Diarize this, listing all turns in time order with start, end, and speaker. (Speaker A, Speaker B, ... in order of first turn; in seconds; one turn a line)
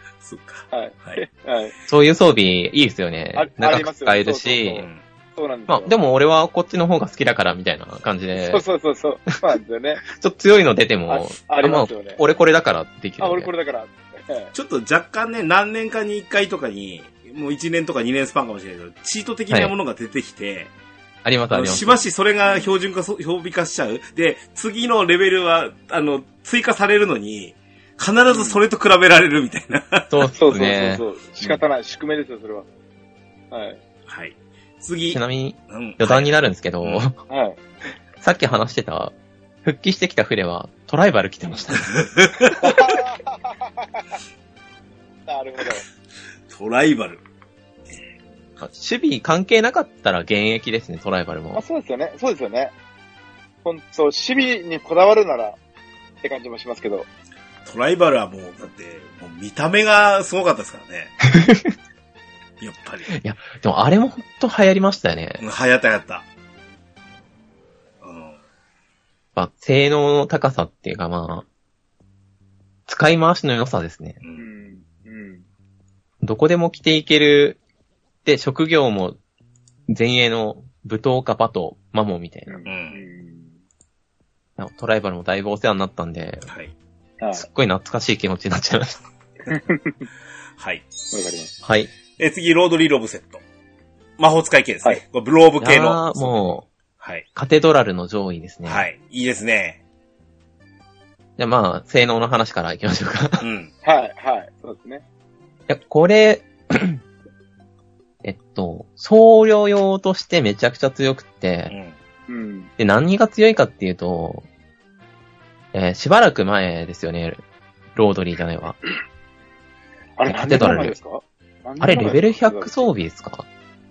Speaker A: 0.2-1.2
Speaker B: 0.7-1.7
Speaker C: 1.9-4.8
Speaker B: 3.3-6.0
Speaker C: 5.7-8.6
Speaker B: 8.3-10.0
Speaker C: 10.1-13.5
Speaker B: 11.1-12.2
Speaker B: 13.2-14.5
Speaker A: 14.5-20.7
Speaker C: 21.2-22.0
Speaker A: 21.5-30.2
Speaker B: 22.4-22.7
Speaker B: 28.3-28.6
Speaker C: 30.1-31.5
Speaker B: 30.3-32.7
Speaker B: 33.5-33.8
Speaker A: 34.1-37.0
Speaker C: 35.1-37.2
Speaker B: 37.3-37.6
Speaker C: 38.2-39.1
Speaker C: 39.6-42.0
Speaker A: 41.9-42.8
Speaker B: 42.6-44.1
Speaker B: 45.3-45.8
Speaker A: 46.5-47.2
Speaker C: 48.6-51.6
Speaker B: 51.5-52.7
Speaker B: 53.6-55.6
Speaker B: 56.2-57.1
Speaker A: 57.6-61.1
Speaker C: 61.2-61.7
Speaker A: 62.6-63.1
Speaker C: 63.1-65.4
Speaker A: 65.4-66.2
Speaker A: 68.0-68.4
Speaker C: 69.3-71.4
Speaker C: 72.9-74.2
Speaker A: 74.2-74.5
Speaker B: 74.3-75.4
Speaker C: 76.2-77.6
Speaker C: 78.2-79.2
Speaker C: 79.9-82.6
Speaker B: 82.5-83.5
Speaker A: 82.7-83.0
Speaker C: 84.6-86.5
Speaker B: 87.2-87.5
Speaker C: 87.3-89.0
Speaker B: 89.5-89.9
Speaker A: 90.6-90.9
Speaker B: 91.1-91.5
Speaker C: 91.6-91.9
Speaker A: 92.2-93.4
Speaker A: 94.2-97.2
Speaker C: 95.6-96.6
Speaker C: 97.3-98.8
Speaker A: 98.7-99.8
Speaker C: 101.4-103.4
Speaker A: 103.4-103.7
Speaker B: 103.8-105.0
Speaker C: 105.7-107.0
Speaker C: 108.2-111.7
Speaker A: 111.7-112.0
Speaker B: 112.3-112.7
Speaker C: 112.8-114.5
Speaker C: 115.7-117.4
Speaker C: 117.9-118.8
Speaker B: 120.2-122.8
Speaker C: 120.3-121.0
Speaker C: 121.8-123.5